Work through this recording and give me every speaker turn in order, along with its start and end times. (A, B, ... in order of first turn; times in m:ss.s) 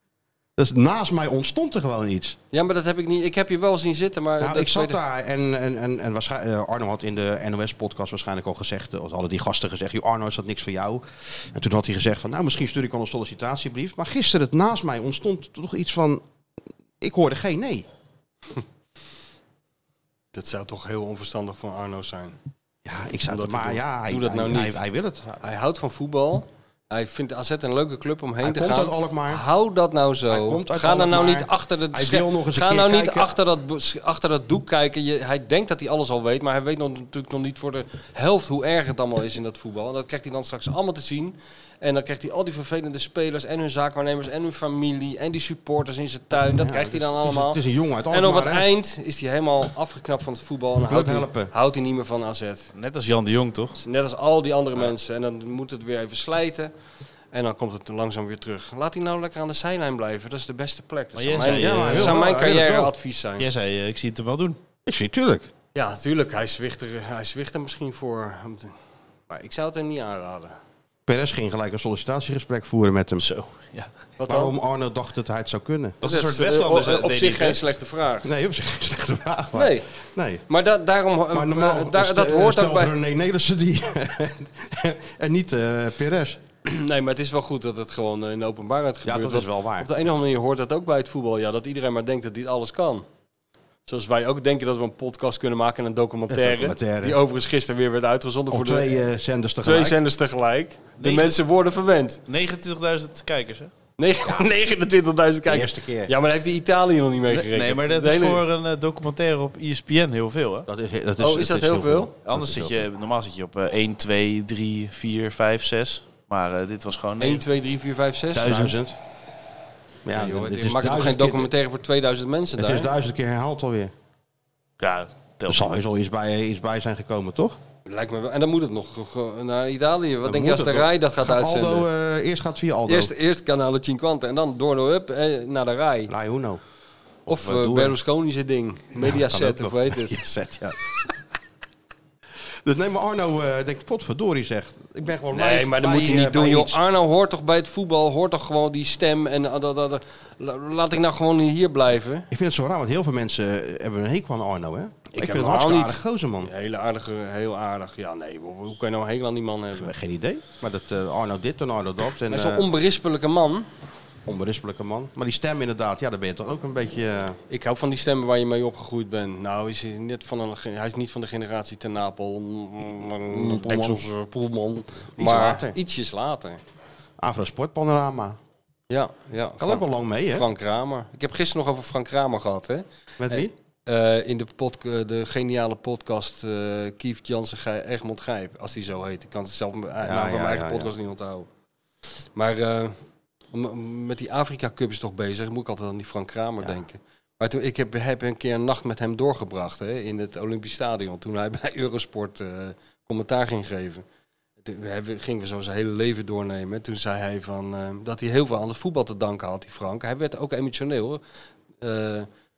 0:00.6-0:02.4 A
0:02.5-0:05.0 B
0:04.4-0:16.2 A
0:17.0-0:17.8 A
0:20.3-0:22.3 B
0:22.8-0:25.4 A
0:23.3-0:24.8 B
0:25.4-0:47.6 B
0:28.4-0:29.4 A
0:30.3-0:33.3 A
0:46.5-0:48.7 A
0:48.1-0:52.7 B
0:50.9-0:51.5 A
0:52.7-0:53.8 C
0:53.8-0:56.7 B
0:57.3-1:03.4 B
1:01.2-1:02.2 C
1:01.4-1:02.9 A
1:03.4-1:04.6 C
1:04.8-1:05.5 A
1:05.7-1:08.8 B
1:09.3-1:10.6 B
1:11.0-1:13.2 A
1:13.2-1:13.9 C
1:14.2-1:14.6 B
1:14.3-1:16.0 A
1:16.0-1:17.6 C
1:16.0-1:18.3 B
1:18.2-1:20.4 A
1:19.5-1:19.9 B
1:20.5-1:22.9 B
1:21.3-1:26.4 A
1:26.6-1:33.0 B
1:29.0-1:29.9 A
1:33.8-1:39.0 B
1:36.3-1:37.2 A
1:38.5-1:40.0 A
1:39.6-1:42.2 B
1:41.0-1:41.4 C
1:42.3-1:43.7 C
1:44.0-1:48.4 B
1:44.2-1:44.5 A
1:45.5-1:46.1 A
1:47.3-1:50.7 C
1:50.7-1:52.7 A
1:51.2-1:52.1 B
1:52.2-1:57.4 C
1:57.2-1:58.8 B
1:58.3-1:58.8 C
1:58.4-1:59.0 A
2:00.0-2:01.5 A
2:00.1-2:02.9 B
2:02.6-2:03.9 A
2:04.8-2:05.7 C
2:05.5-2:07.6 A
2:07.8-2:11.9 B
2:10.2-2:13.1 A
2:12.9-2:16.1 B
2:16.1-2:16.6 A
2:17.3-2:18.0 A
2:17.3-2:20.2 B
2:19.0-2:20.8 A
2:22.6-2:26.8 A
2:25.3-2:32.3 B
2:32.3-2:36.5 A
2:35.1-2:39.9 B
2:39.7-2:42.6 A
2:42.3-2:43.6 B
2:44.2-2:47.4 A
2:47.5-2:56.6 B
2:53.3-2:54.1 A
2:55.2-2:55.8 A
2:57.2-2:58.4 A
2:58.9-3:11.5 B
2:59.6-3:00.4 A
3:03.2-3:03.5 A
3:10.0-3:10.9 A
3:12.3-3:12.9 B
3:13.5-3:24.0 B
3:24.6-3:31.2 B
3:31.8-3:32.3 B